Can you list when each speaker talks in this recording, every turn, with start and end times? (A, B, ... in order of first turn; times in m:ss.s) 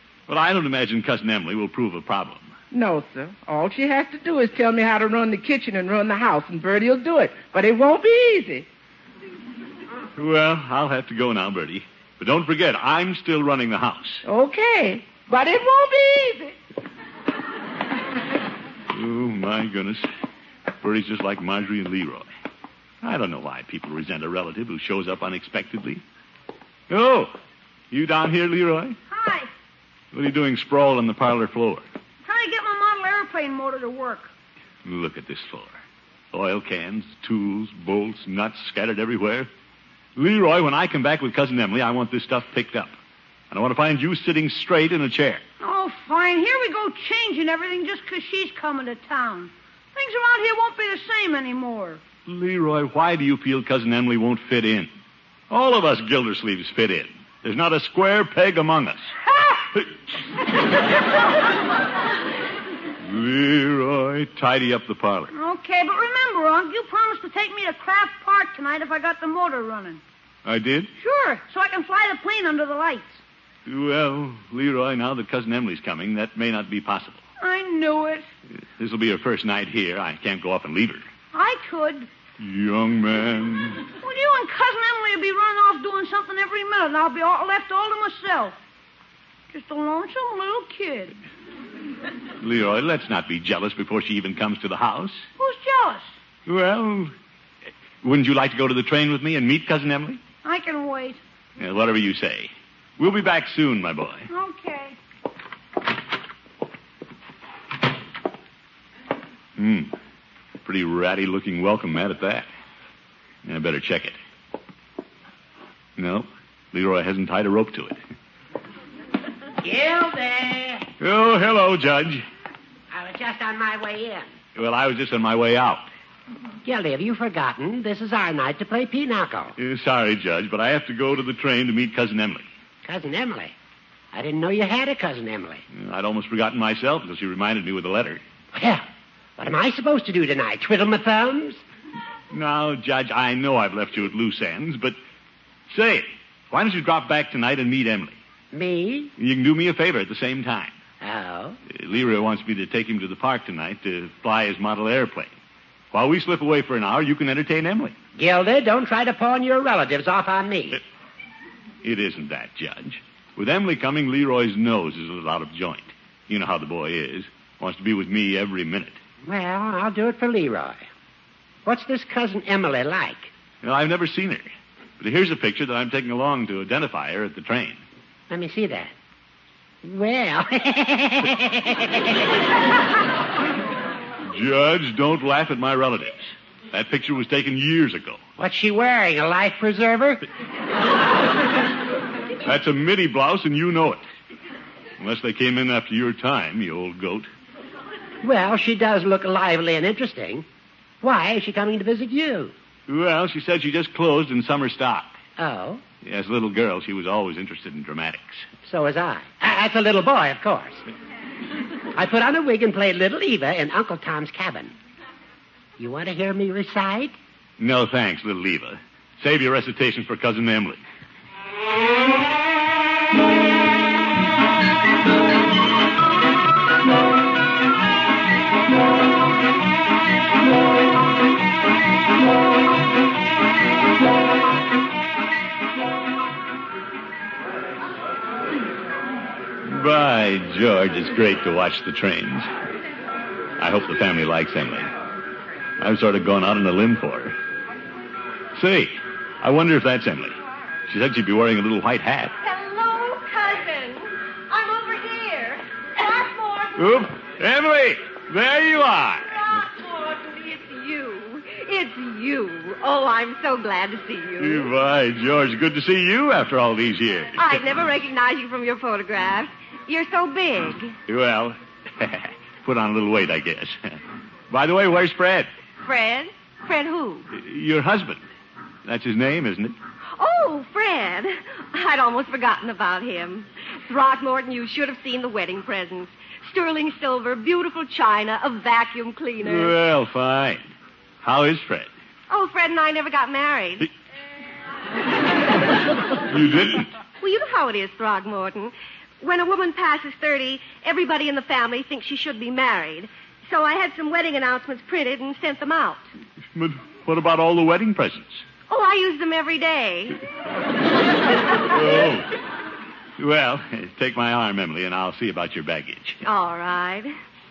0:00.3-0:02.5 A
0:02.7-0:08.7 B
0:10.2-0:14.2 A
0:14.2-0:16.6 B
0:18.9-0:20.0 A
0:20.8-0:22.3 A
0:23.0-0:26.0 A
0:26.9-0:27.3 A
0:27.9-0:29.0 A
0:29.1-0:29.5 C
0:30.1-0:31.8 A
0:32.2-0:34.3 C
0:34.8-0:35.8 A
0:36.3-0:39.5 A
0:40.2-0:42.9 A
0:43.5-0:45.4 A
0:45.6-0:52.0 C
0:52.3-0:54.9 A
0:55.5-0:59.1 A
1:03.0-1:05.3 A
1:05.3-1:10.0 C
1:10.4-1:10.9 A
1:11.0-1:13.2 C
1:13.7-1:17.2 A
1:17.4-1:18.3 C
1:18.8-1:21.1 A
1:21.3-1:22.1 C
1:22.4-1:23.9 A
1:24.0-1:28.6 C
1:29.5-1:31.2 C
1:32.4-1:35.3 A
1:35.4-1:36.1 C
1:36.5-1:37.1 A
1:38.0-1:40.2 A
1:40.4-1:41.2 C
1:41.6-1:44.3 A
1:44.3-1:45.0 C
1:49.6-1:49.9 A
1:50.6-1:52.5 A
1:53.4-1:54.2 A
1:56.0-1:58.0 A
1:59.6-2:00.9 D
2:01.0-2:02.2 A
2:02.9-2:04.3 D
2:04.6-2:05.9 A
2:06.6-2:09.6 D
2:09.6-2:12.5 A
2:12.8-2:13.5 D
2:14.1-2:15.6 D
2:15.7-2:18.2 A
2:18.5-2:18.8 D
2:19.4-2:21.6 D
2:22.3-2:25.0 A
2:25.7-2:28.2 A
2:28.5-2:29.1 D
2:29.2-2:30.8 A
2:31.0-2:31.6 D
2:31.7-2:35.3 A
2:35.9-2:38.0 A
2:38.2-2:40.8 D
2:41.8-2:49.0 A
2:49.2-2:50.8 D
2:51.6-2:53.3 D
2:53.6-2:54.5 A
2:55.0-2:57.8 A
2:58.3-2:58.9 D
2:59.8-3:02.4 D
3:04.3-3:08.2 A
3:08.4-3:10.2 D
3:12.4-3:14.0 A
3:15.0-3:17.3 A
3:18.2-3:20.4 D
3:21.0-3:22.5 D
3:22.9-3:25.2 A
3:25.4-3:25.8 D
3:26.0-3:28.5 A
3:28.7-3:30.8 D
3:31.9-3:34.7 D
3:35.8-3:37.2 D
3:37.6-3:40.8 A
3:59.7-4:02.5 A
4:03.6-4:04.9 A
4:05.8-4:07.4 A
4:08.6-4:10.4 A
4:10.9-4:12.3 A
4:12.4-4:17.0 E
4:16.8-4:19.4 A
4:19.3-4:24.7 E
4:24.4-4:27.6 A
4:27.4-4:31.0 E
4:31.1-4:34.0 A
4:34.5-4:35.5 A
4:35.8-4:37.3 E
4:37.3-4:38.2 A
4:38.9-4:39.8 A
4:40.2-4:49.8 E
4:49.4-4:50.6 A
4:51.2-4:51.9 A
4:52.3-4:53.9 E
4:56.3-4:56.9 A
4:57.2-5:06.0 E
5:06.6-5:08.4 A
5:08.7-5:10.2 E
5:11.6-5:12.3 A
5:13.2-5:16.2 A
5:16.2-5:17.1 E